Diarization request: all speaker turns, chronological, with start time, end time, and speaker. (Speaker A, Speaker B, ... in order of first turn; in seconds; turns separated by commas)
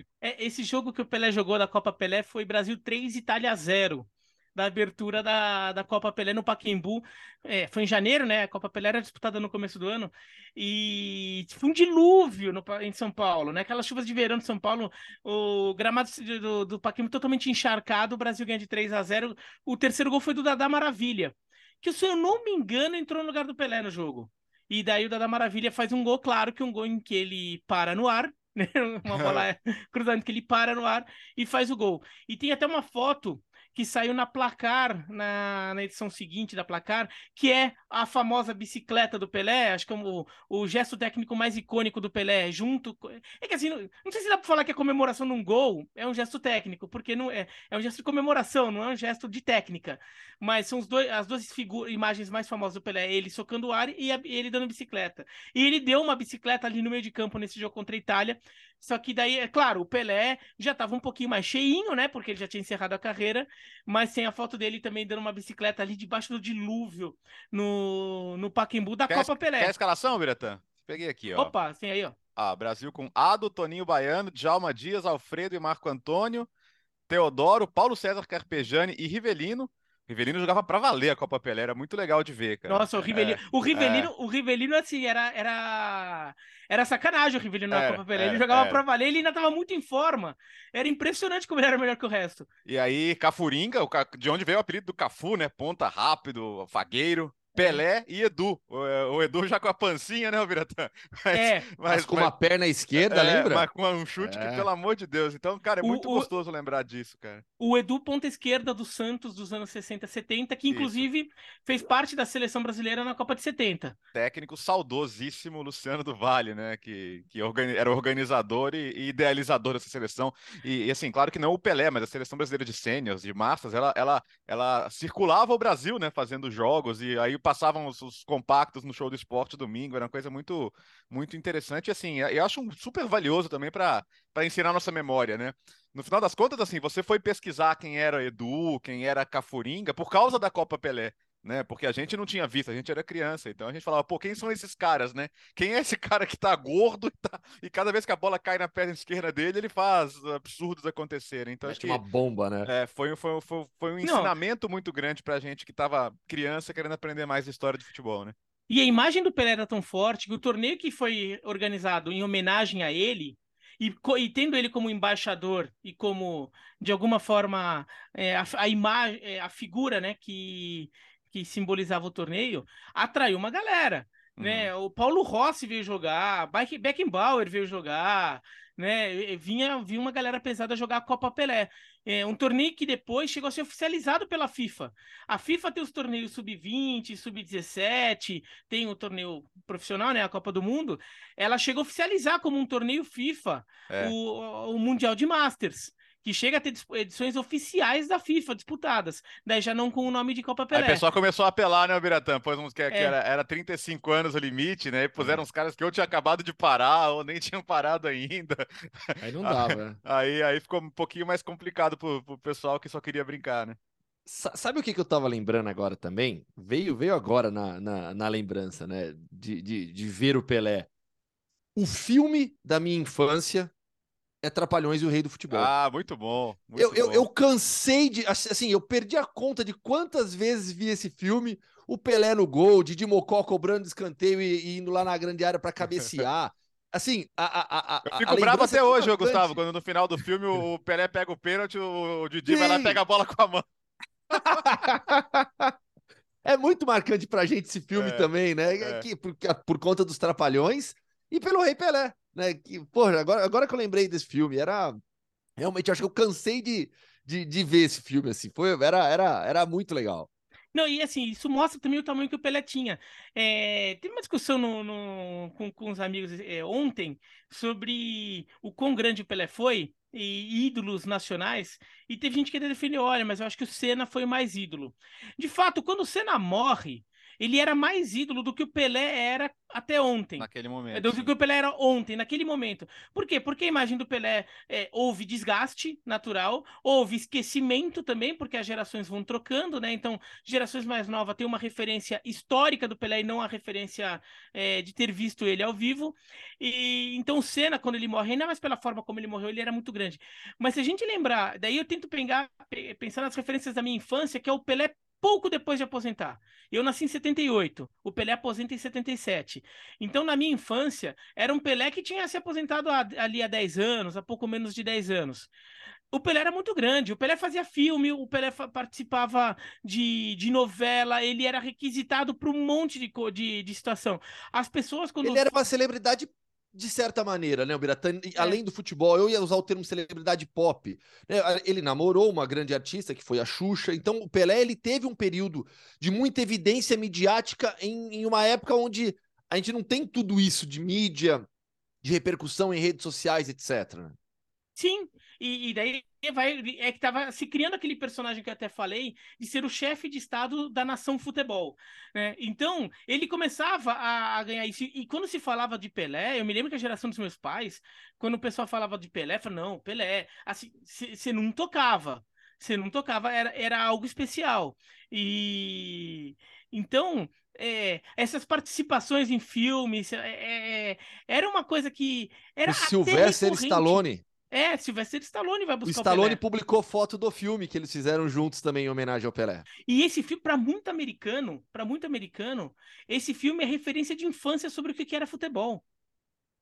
Speaker A: 0.2-69.7, Speaker B: 29.1-29.4, Speaker B: 69.1-71.5, Speaker A: 71.3-72.2, Speaker B: 72.4-76.5, Speaker B: 77.1-84.1, Speaker A: 82.7-92.5, Speaker B: 87.7-88.8, Speaker B: 92.7-102.3, Speaker A: 97.6-97.8, Speaker A: 101.3-101.7, Speaker C: 101.9-103.7, Speaker B: 103.0-107.4, Speaker C: 104.2-104.7, Speaker A: 105.8-106.3, Speaker A: 107.6-114.0, Speaker B: 110.7-111.0, Speaker B: 114.1-152.0, Speaker C: 151.6-152.7, Speaker B: 152.7-158.3, Speaker A: 154.0-154.3, Speaker A: 158.7-201.0, Speaker B: 174.4-174.7, Speaker B: 193.9-194.2, Speaker B: 200.7-213.8, Speaker C: 205.2-205.4, Speaker C: 209.2-210.0, Speaker C: 214.3-220.9, Speaker C: 221.8-223.7, Speaker C: 224.4-225.7, Speaker B: 225.5-227.3, Speaker C: 226.8-239.6, Speaker B: 238.1-243.7, Speaker C: 242.5-243.0, Speaker B: 244.3-244.8, Speaker C: 244.3-245.8, Speaker C: 246.4-255.0, Speaker B: 247.9-249.1, Speaker C: 255.6-260.3, Speaker A: 260.7-315.5, Speaker B: 280.4-281.3, Speaker A: 316.1-325.6, Speaker C: 325.2-341.5, Speaker C: 342.0-344.2, Speaker A: 344.8-376.4, Speaker C: 372.7-374.2, Speaker C: 375.9-379.7, Speaker A: 379.9-385.8